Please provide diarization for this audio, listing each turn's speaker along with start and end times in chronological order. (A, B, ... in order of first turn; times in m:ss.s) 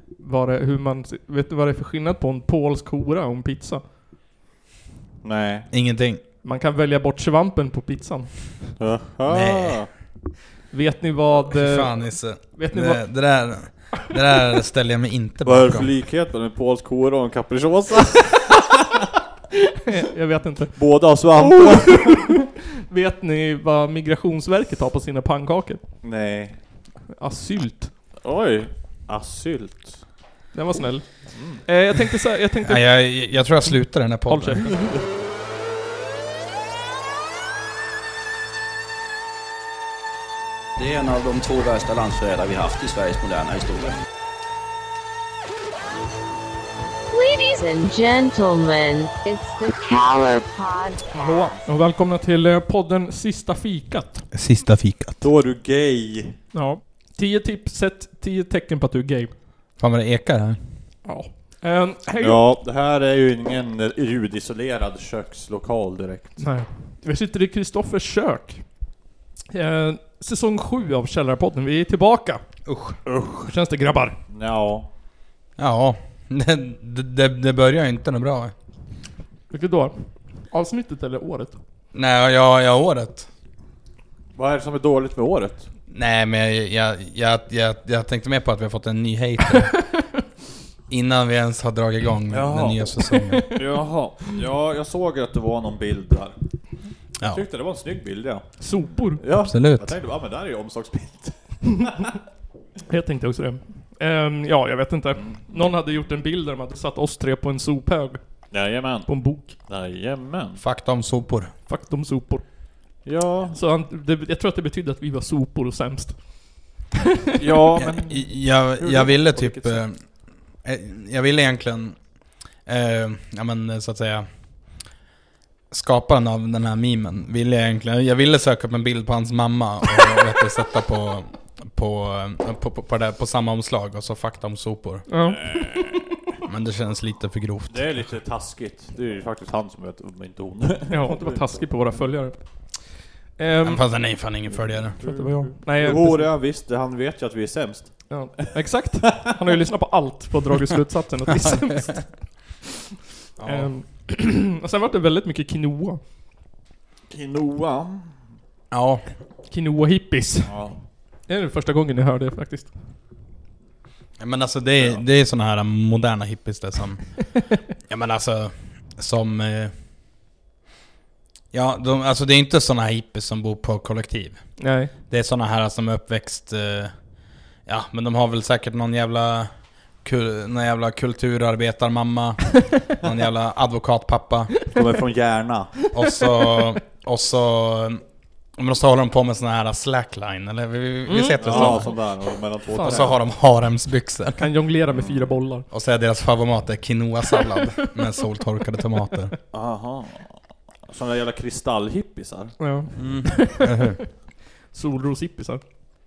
0:00.2-0:03.8 A
0:05.2-0:05.7 B
0:05.7-0:06.2 C
0:06.4-0:08.7 A
0:08.8-0:09.9 B
0:09.2-0:09.8 C
0:10.7-0:13.0 A
0:11.5-0:15.9 C
0:15.4-0:18.8 B
0:19.8-0:22.4 A
0:20.7-0:22.3 B
0:22.9-0:25.8 A
0:26.0-0:26.6 B
0:27.2-0:27.9 A
0:28.2-0:30.1 B
0:30.5-0:33.4 A
0:31.3-0:31.6 B
0:32.6-0:34.7 C
0:34.3-0:34.9 A
0:34.7-0:35.0 B
0:40.8-0:44.0 D
0:47.1-0:51.6 E
0:51.2-0:54.2 A
0:54.3-0:55.2 C
0:55.2-0:56.4 B
0:56.5-0:59.3 A
0:59.8-1:00.6 C
1:01.0-1:02.4 A
1:02.2-1:06.4 B
1:06.4-1:08.7 A
1:09.5-1:12.4 A
1:12.6-1:13.0 C
1:13.0-1:13.5 B
1:13.4-1:14.2 A
1:14.3-1:14.9 B
1:15.6-1:18.5 C
1:19.5-1:21.6 A
1:21.9-1:23.3 C
1:24.3-1:25.7 B
1:25.9-1:29.7 C
1:29.7-1:30.2 A
1:30.9-1:33.5 C
1:32.3-1:32.8 B
1:33.0-1:33.7 A
1:33.5-1:36.3 B
1:37.2-1:38.5 B
1:38.6-1:39.2 A
1:39.2-1:42.0 B
1:39.4-1:39.9 C
1:42.9-1:48.5 A
1:45.2-1:45.6 B
1:48.5-1:50.6 B
1:49.0-1:49.5 A
1:50.6-1:51.5 C
1:51.7-1:52.4 A
1:53.0-1:53.6 B
1:53.5-1:56.7 A
1:57.4-1:59.8 B
1:57.8-2:00.0 C
2:00.6-2:02.0 C
2:02.6-2:04.3 C
2:05.7-2:15.1 C
2:15.1-2:15.8 A
2:15.2-2:15.9 B
2:16.4-2:18.0 C
2:17.7-2:21.4 B
2:20.9-2:22.8 A
2:23.4-2:23.8 A
2:23.6-2:25.0 C
2:25.0-2:28.2 B
2:25.0-2:26.3 A
2:28.1-2:32.1 A
2:31.4-2:31.9 C
2:33.4-2:33.7 C
2:33.4-2:36.0 A
2:37.1-2:38.2 B
2:38.7-2:39.0 C
2:39.5-2:40.6 A
2:40.4-2:40.8 B
2:41.3-2:42.7 A
2:44.2-2:47.4 C
2:47.9-2:49.7 C
2:51.5-2:56.9 C
2:54.6-2:54.9 A
2:57.6-2:59.5 C
3:00.0-3:04.5 C
3:04.7-3:05.7 B
3:05.8-3:06.7 A
3:05.9-3:08.0 C
3:08.6-3:12.0 C
3:11.0-3:12.1 A
3:11.4-3:13.2 B
3:12.7-3:13.2 A
3:12.8-3:14.5 C
3:14.4-3:15.7 A
3:14.9-3:15.4 B
3:15.7-3:19.4 C
3:19.5-3:23.0 B
3:22.6-3:24.0 A
3:23.0-3:24.0 C
3:24.7-3:25.6 A